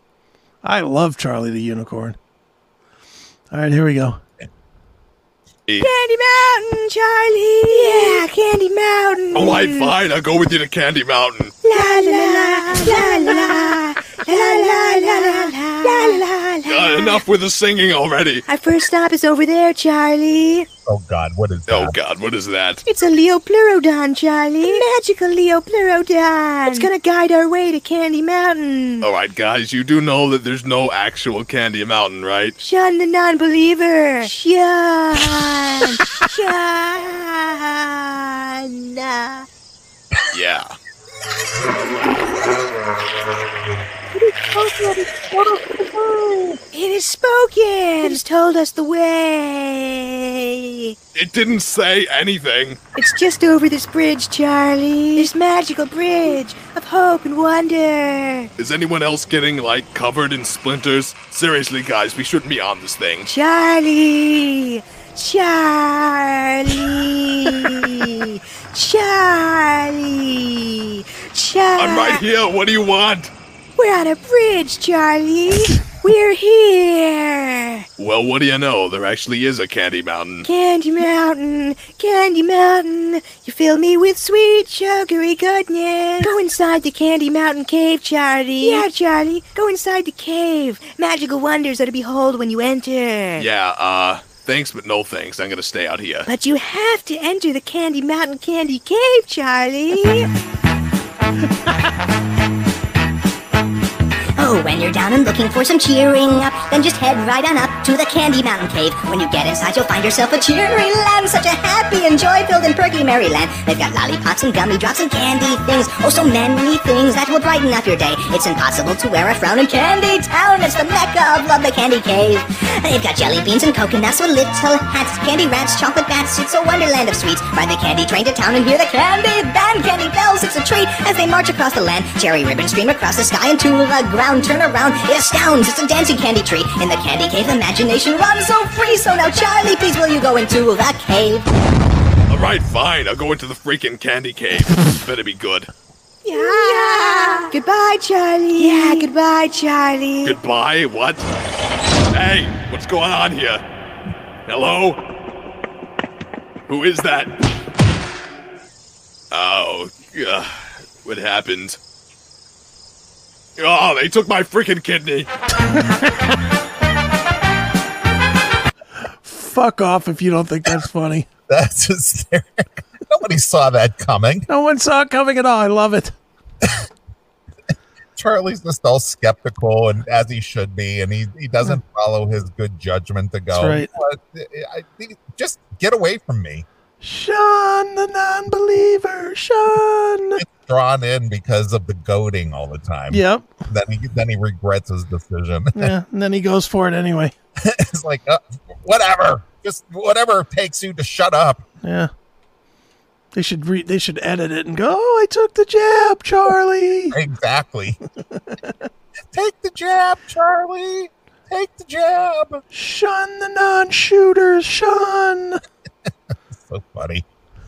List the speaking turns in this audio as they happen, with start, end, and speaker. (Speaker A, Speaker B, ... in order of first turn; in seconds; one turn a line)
Speaker A: 0.6-2.2
Speaker A: 3.5-4.2
Speaker B: 5.8-9.9
Speaker C: 9.3-11.6
Speaker B: 11.6-17.2
Speaker C: 16.7-18.4
Speaker B: 18.5-20.7
Speaker D: 20.9-21.9
Speaker C: 21.7-22.8
Speaker B: 22.9-29.1
Speaker C: 29.0-32.5
Speaker B: 32.6-39.5
Speaker C: 40.3-40.7
Speaker B: 46.7-51.0
Speaker C: 51.1-52.8
Speaker B: 53.0-58.5
Speaker C: 58.6-63.3
Speaker B: 63.3-72.2
Speaker C: 71.8-73.3
Speaker B: 73.8-77.9
Speaker C: 78.0-80.5
Speaker B: 80.4-93.5
Speaker C: 93.4-96.3
Speaker B: 96.3-100.3
Speaker E: 104.4-141.5
Speaker C: 142.3-145.7
Speaker B: 146.2-150.4
Speaker C: 150.2-151.2
Speaker C: 152.1-153.6
Speaker C: 154.5-155.0
Speaker C: 156.7-157.3
Speaker C: 159.3-161.8
Speaker C: 163.6-165.3
Speaker A: 169.2-171.3
Speaker D: 171.5-174.5
Speaker A: 174.5-176.1
Speaker D: 178.2-186.7
Speaker A: 183.5-183.9
Speaker A: 187.0-190.4
Speaker D: 190.4-195.9
Speaker A: 193.1-193.6
Speaker A: 195.8-197.3
Speaker D: 197.6-201.6
Speaker A: 201.8-202.1
Speaker A: 203.3-207.2
Speaker D: 207.1-208.0
Speaker A: 208.4-208.7
Speaker D: 209.3-212.6
Speaker A: 212.7-215.6
Speaker D: 216.5-217.3